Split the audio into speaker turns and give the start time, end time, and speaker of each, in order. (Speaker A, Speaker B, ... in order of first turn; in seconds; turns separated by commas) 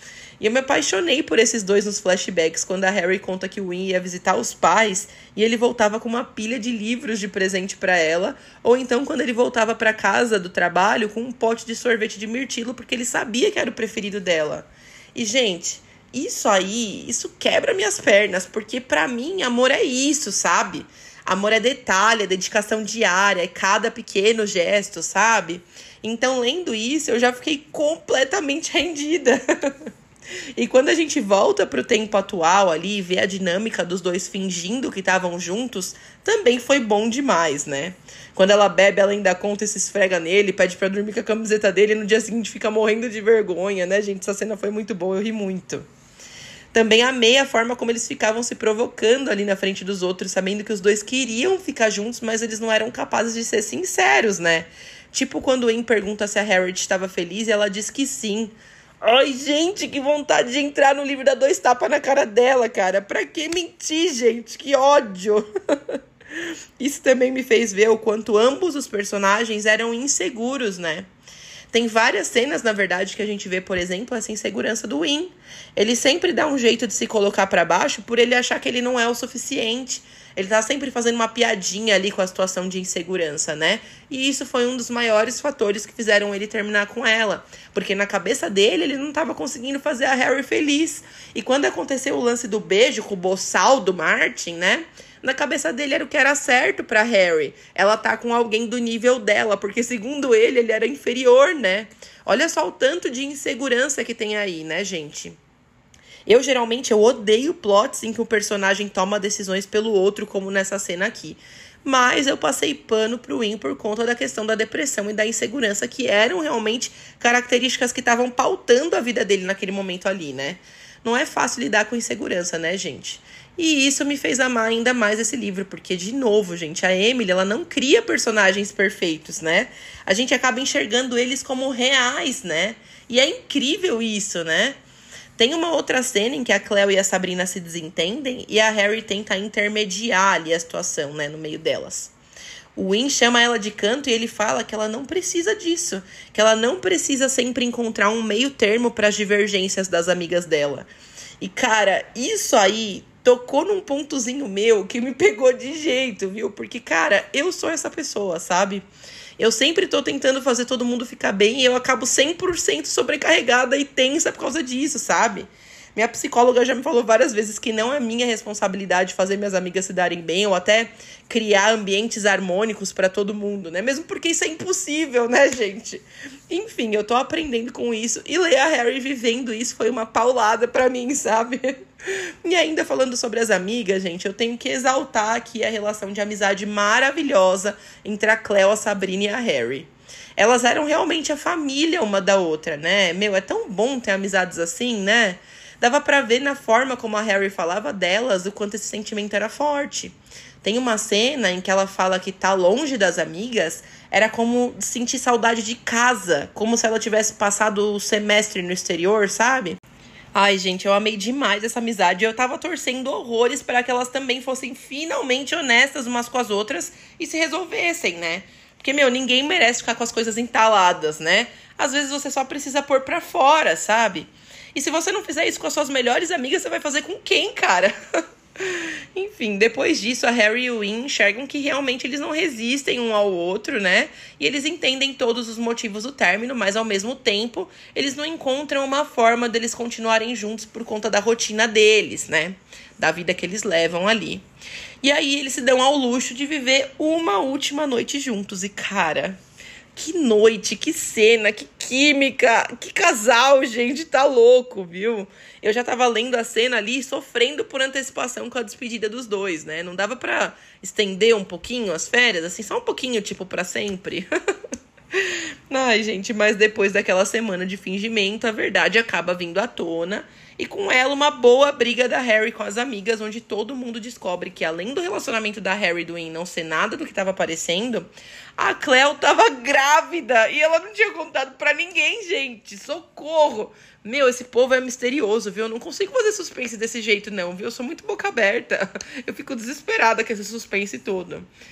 Speaker A: 0.4-29.8, Speaker A: 30.6-45.9, Speaker A: 46.7-66.0, Speaker A: 66.8-71.1, Speaker A: 71.7-105.4, Speaker A: 106.3-134.8, Speaker A: 135.4-142.1, Speaker A: 142.8-150.9, Speaker A: 151.4-158.8, Speaker A: 159.4-209.8, Speaker A: 210.3-227.9, Speaker A: 228.6-244.4, Speaker A: 245.0-249.4, Speaker A: 249.9-264.3, Speaker A: 265.1-291.5